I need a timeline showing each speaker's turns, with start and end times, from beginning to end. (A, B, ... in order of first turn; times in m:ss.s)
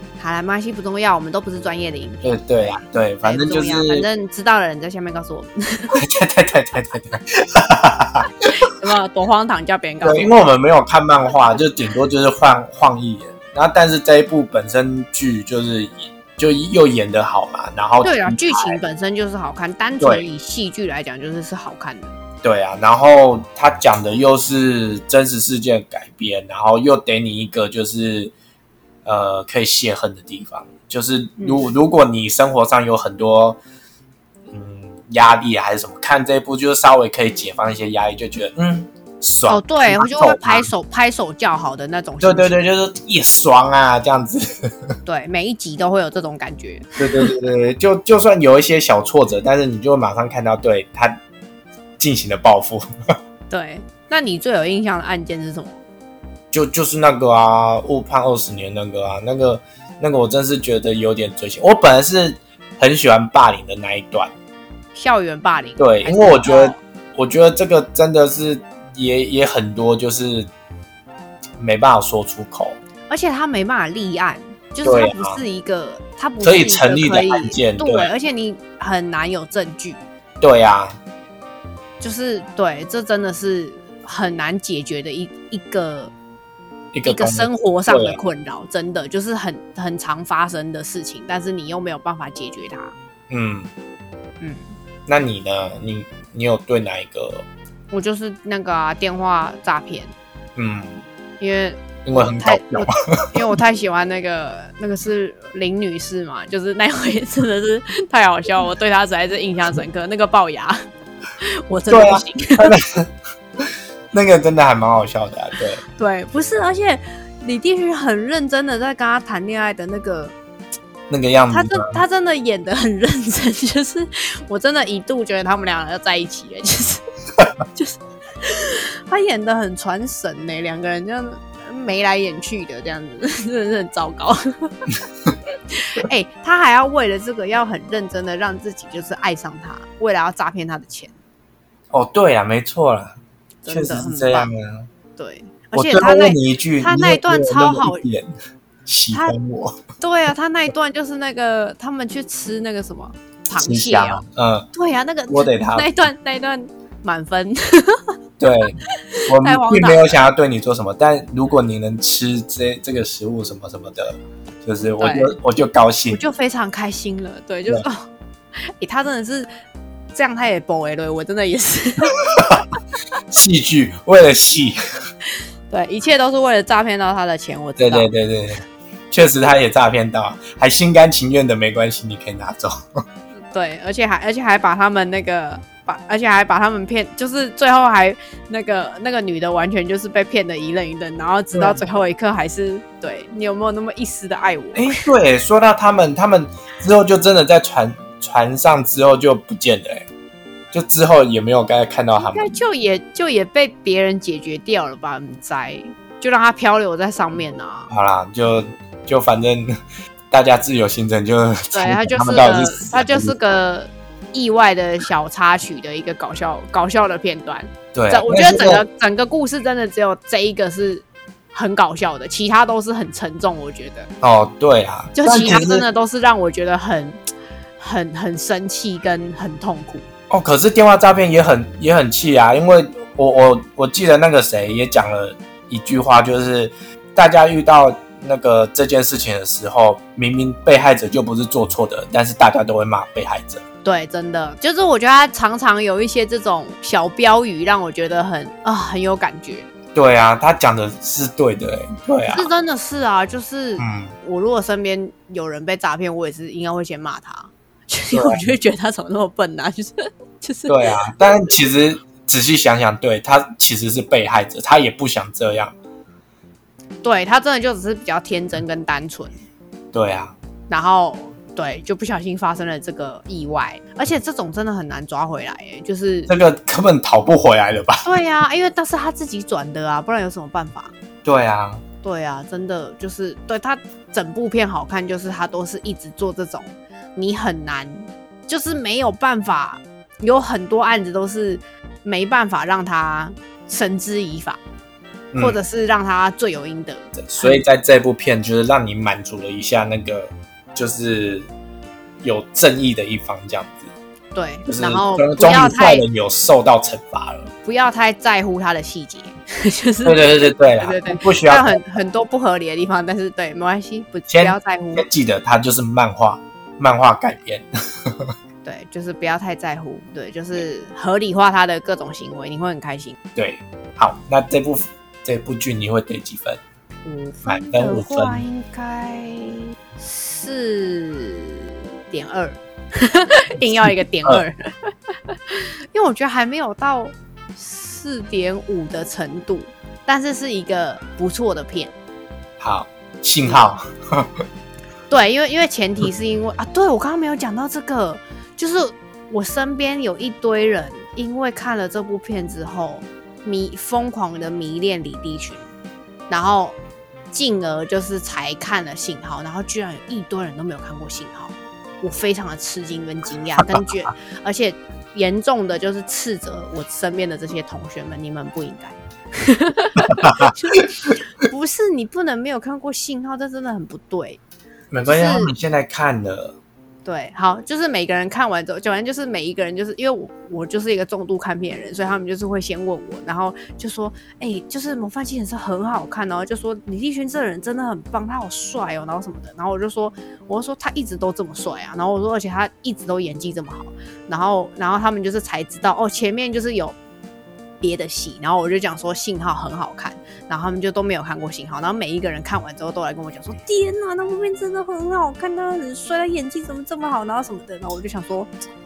0:00.2-0:06.0 A
0:02.2-0:04.0 B
0:06.0-0:08.5 B
0:08.5-0:10.4 A
0:10.0-0:18.8 B
0:18.0-0:22.2 A
0:20.0-0:20.3 B
0:22.4-0:28.3 B
0:29.0-0:33.6 B
0:31.4-0:31.7 A
0:34.5-0:40.7 B
0:39.5-0:42.6 A
0:42.2-0:44.9 B
0:45.1-0:47.4 A
0:47.0-0:51.2 B
0:52.0-0:52.8 B
0:53.5-0:55.8 A
0:56.5-1:04.3 B
1:05.0-1:06.8 A
1:05.8-1:10.5 B
1:11.6-1:12.8 B
1:13.1-1:20.0 A
1:14.8-1:15.4 B
1:16.4-1:18.1 B
1:20.4-1:21.0 B
1:22.0-1:26.1 A
1:26.9-1:28.2 B
1:27.1-1:32.9 A
1:33.3-1:33.7 B
1:35.1-1:37.4 B
1:37.9-1:40.1 A
1:40.6-1:41.0 B
1:41.4-1:50.8 A
1:42.0-1:43.4 B
1:51.4-1:52.8 A
1:51.9-1:55.8 B
1:56.0-2:00.4 A
2:01.1-2:02.0 B
2:01.5-2:07.0 A
2:07.7-2:14.9 A
2:15.7-2:21.1 A
2:21.9-2:23.2 B
2:23.6-2:24.5 A
2:23.7-2:24.9 B
2:25.2-2:28.0 A
2:25.7-2:28.3 B
2:28.9-2:29.8 B
2:30.0-2:38.0 A
2:33.6-2:34.7 B
2:35.3-2:35.9 B
2:38.4-2:46.2 B
2:39.1-2:40.2 A
2:45.0-2:45.3 A
2:46.1-2:48.1 A
2:48.8-2:49.5 A
2:50.1-2:52.2 A
2:52.3-2:52.6 B
2:53.3-2:54.8 B
2:55.7-2:58.1 A
2:57.8-3:03.0 B
3:03.5-3:15.1 A
3:11.5-3:11.8 B
3:14.7-3:20.1 B
3:20.7-3:22.5 B
3:22.2-3:27.9 A
3:27.9-3:29.7 B
3:30.3-3:33.3 B
3:31.7-3:44.1 A
3:37.9-3:38.8 B
3:44.2-3:45.8 B
3:45.2-3:47.2 A
3:47.8-3:50.1 A
3:50.3-4:03.6 B
4:03.8-4:09.7 A
4:10.0-4:12.5 B
4:12.3-4:21.4 A
4:13.8-4:14.1 B
4:18.1-4:18.5 B
4:20.7-4:25.7 B
4:27.0-4:29.3 A
4:29.9-4:30.4 B
4:30.7-4:36.3 A
4:36.3-4:38.1 B
4:38.0-4:40.9 A
4:41.2-4:41.8 B
4:42.0-4:54.6 A
4:55.3-4:55.6 B
4:55.4-4:57.6 A
4:57.2-5:01.5 B
5:02.2-5:03.9 B
5:04.3-5:06.0 A
5:04.7-5:07.5 B
5:07.6-5:15.1 A
5:10.0-5:11.8 B
5:14.3-5:18.3 B
5:18.6-5:23.2 A
5:23.4-5:26.6 B
5:27.1-5:41.9 A
5:27.4-5:28.4 B
5:33.8-5:34.4 B
5:42.6-5:44.4 B
5:45.1-5:55.7 A
5:56.3-5:56.8 A
5:57.3-6:14.4 A
6:10.2-6:10.8 B
6:14.9-6:16.6 B
6:15.1-6:15.5 A
6:17.0-6:37.0 A
6:37.8-6:48.5 A